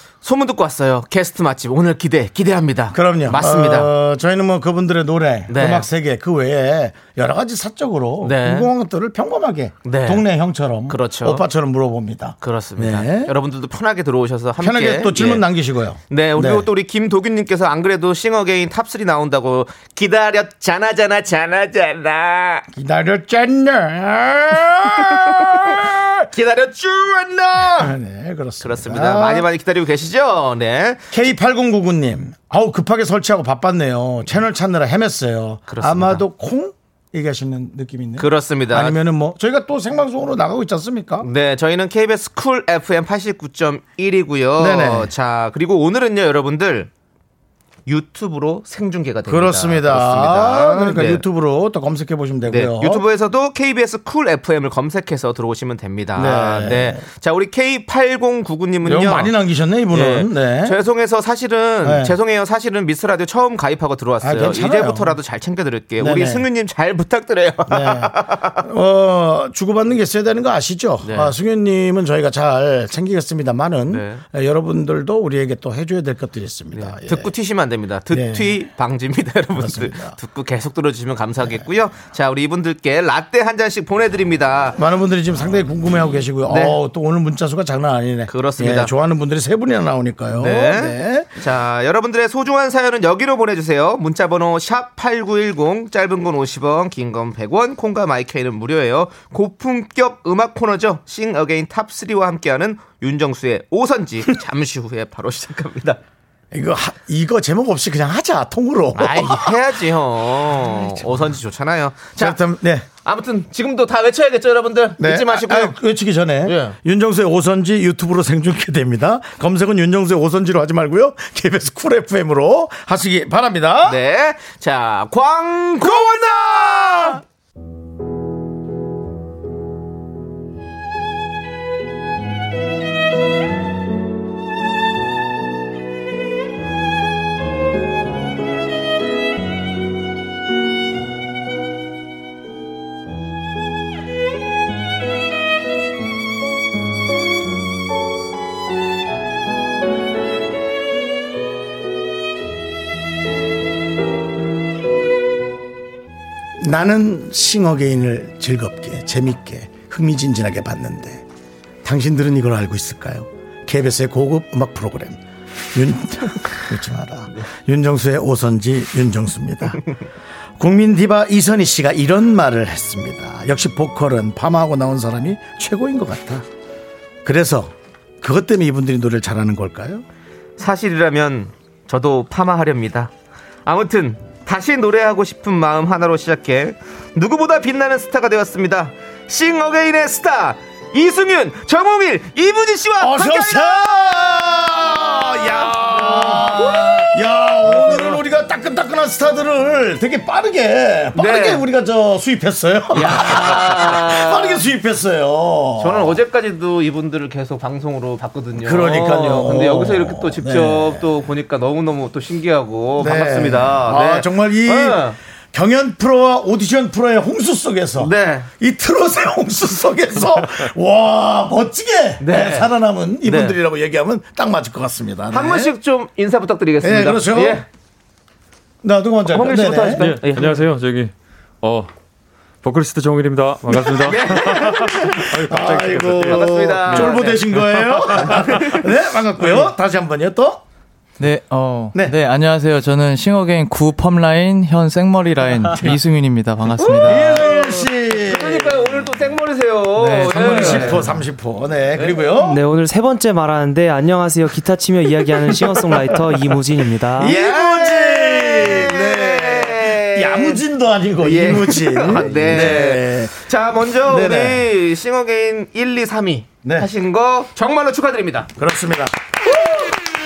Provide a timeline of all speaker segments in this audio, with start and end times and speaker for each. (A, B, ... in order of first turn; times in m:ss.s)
0:00.2-0:03.9 A
0:02.9-0:13.3 B
0:05.5-0:05.9 A
0:08.2-0:08.7 A
0:09.8-0:10.2 A
0:10.9-0:11.4 A
0:12.4-0:15.4 A
0:14.6-0:16.7 B
0:16.1-0:22.7 A
0:22.7-0:26.1 B
0:25.1-0:28.0 A
0:27.8-0:29.5 B
0:28.6-0:31.0 A
0:31.1-0:41.3 B
0:35.7-0:36.2 A
0:38.2-0:39.0 A
0:41.2-0:46.9 A
0:44.6-0:45.1 B
0:47.9-0:51.2 A
0:49.3-0:53.0 B
0:52.5-0:59.3 A
0:56.2-0:57.0 B
0:58.8-1:00.8 B
0:59.9-1:08.6 A
1:01.8-1:02.2 B
1:04.2-1:05.2 B
1:06.0-1:06.5 B
1:07.7-1:17.3 B
1:11.0-1:11.3 A
1:13.9-1:14.2 A
1:16.7-1:24.8 A
1:18.1-1:18.7 B
1:19.6-1:20.2 B
1:24.8-1:31.3 B
1:26.5-1:26.8 A
1:28.3-1:28.9 A
1:30.4-1:46.0 A
1:46.5-1:49.7 B
1:49.0-1:52.4 A
1:50.5-1:51.1 B
1:52.2-1:52.9 B
1:53.0-1:55.8 A
1:55.0-2:04.0 B
1:56.4-1:56.8 A
2:03.9-2:06.3 A
2:05.8-2:07.2 B
2:36.6-2:41.2 B
2:41.8-2:45.2 B
2:45.7-2:49.8 B
2:50.6-2:56.5 B
2:57.2-3:00.0 B
3:00.6-3:03.1 A
3:03.7-3:13.9 A
3:13.0-3:26.2 B
3:15.2-3:17.1 A
3:17.8-3:18.2 A
3:21.2-3:21.6 A
3:22.9-3:24.6 A
3:25.8-3:35.2 A
3:28.6-3:31.1 B
3:33.0-3:45.7 B
3:38.0-3:38.5 A
3:42.2-3:43.6 A
3:45.3-3:47.7 A
3:46.8-3:47.6 B
3:48.8-3:50.1 B
3:49.3-3:50.6 A
3:50.0-3:51.9 C
3:52.6-3:58.4 C
3:53.8-3:55.4 A
3:55.2-4:00.6 B
3:56.2-3:59.7 A
4:01.2-4:07.4 D
4:06.8-4:11.0 A
4:07.0-4:09.0 B
4:10.0-4:11.1 D
4:10.3-4:12.6 B
4:12.0-4:12.2 A
4:12.4-4:17.4 E
4:17.2-4:23.4 B
4:17.2-4:20.6 A
4:21.2-4:28.5 A
4:23.9-4:24.7 B
4:28.6-4:29.2 B